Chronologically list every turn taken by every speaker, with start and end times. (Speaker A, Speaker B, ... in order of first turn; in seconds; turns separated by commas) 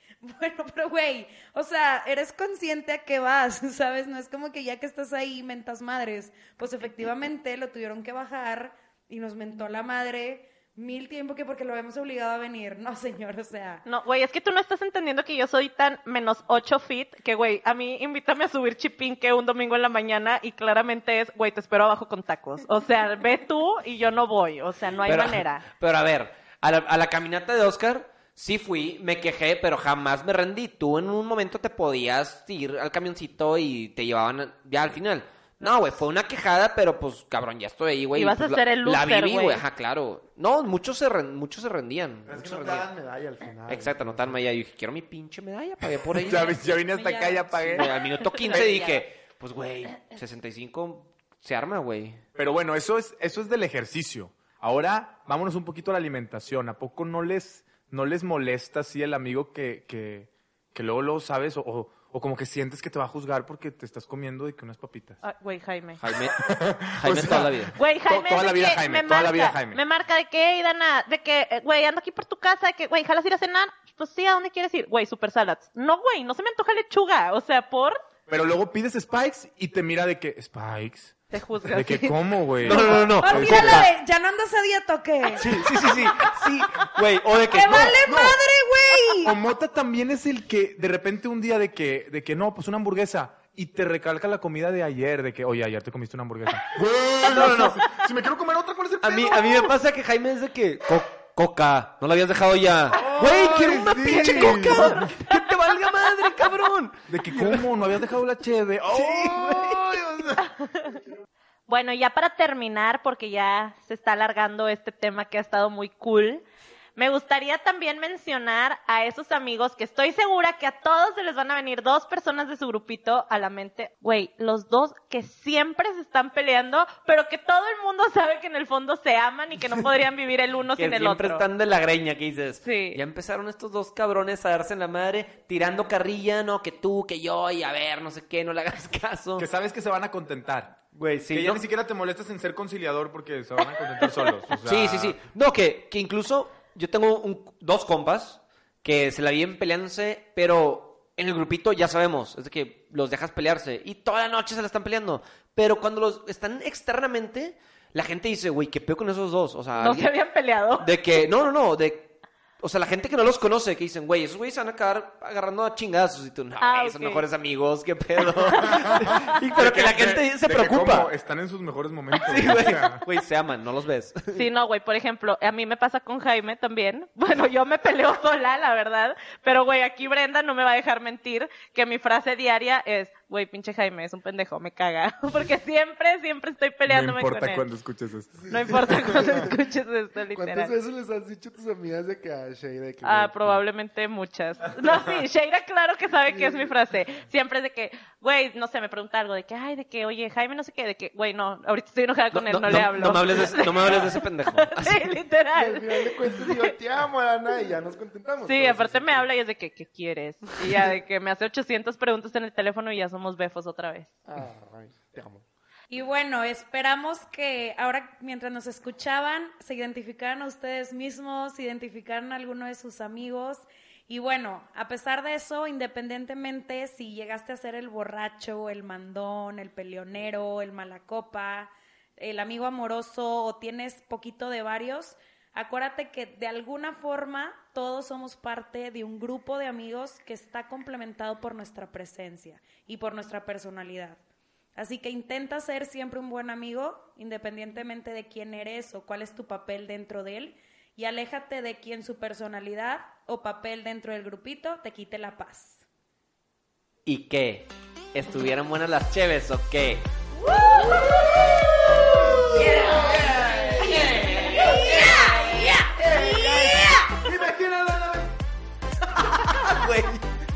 Speaker A: 0.2-13.8, Speaker B: 13.9-25.6, Speaker C: 25.1-42.9, Speaker B: 38.1-39.6, Speaker D: 42.3-44.5, Speaker C: 43.7-46.7, Speaker E: 46.1-47.9, Speaker B: 46.9-49.0, Speaker C: 47.6-52.2, Speaker E: 52.4-65.2, Speaker B: 65.2-66.0, Speaker C: 66.0-67.8, Speaker E: 66.3-69.8, Speaker B: 67.8-78.0, Speaker E: 78.3-81.2, Speaker B: 81.3-83.0, Speaker E: 81.7-83.9, Speaker C: 82.6-83.9, Speaker A: 82.8-86.2, Speaker C: 85.3-88.0, Speaker A: 87.5-89.4, Speaker E: 87.6-88.4, Speaker E: 89.2-99.7, Speaker C: 97.2-98.0, Speaker C: 99.0-107.7, Speaker E: 102.9-105.1, Speaker D: 103.3-104.2, Speaker B: 104.2-105.5, Speaker E: 107.1-110.5, Speaker C: 108.9-110.3, Speaker B: 110.4-111.0, Speaker B: 111.7-116.4, Speaker B: 117.0-131.4, Speaker C: 130.8-139.5, Speaker B: 132.6-133.0, Speaker E: 139.4-140.8, Speaker C: 140.9-141.6, Speaker E: 141.3-145.2, Speaker C: 144.5-160.1, Speaker B: 159.8-160.9, Speaker C: 160.8-171.1, Speaker B: 166.6-167.3, Speaker E: 168.5-173.0, Speaker B: 168.6-169.2, Speaker C: 172.2-174.5, Speaker B: 174.3-187.6, Speaker E: 186.9-189.2, Speaker D: 188.4-189.5, Speaker B: 188.5-190.7, Speaker D: 190.3-193.6, Speaker B: 193.0-206.7, Speaker D: 196.3-196.7, Speaker C: 202.3-205.1, Speaker D: 205.6-209.3, Speaker B: 208.4-214.1, Speaker D: 214.2-215.5, Speaker A: 215.9-244.2, Speaker A: 244.8-255.8, Speaker C: 257.1-267.3, Speaker D: 262.6-268.4, Speaker B: 264.0-266.3, Speaker C: 269.1-270.3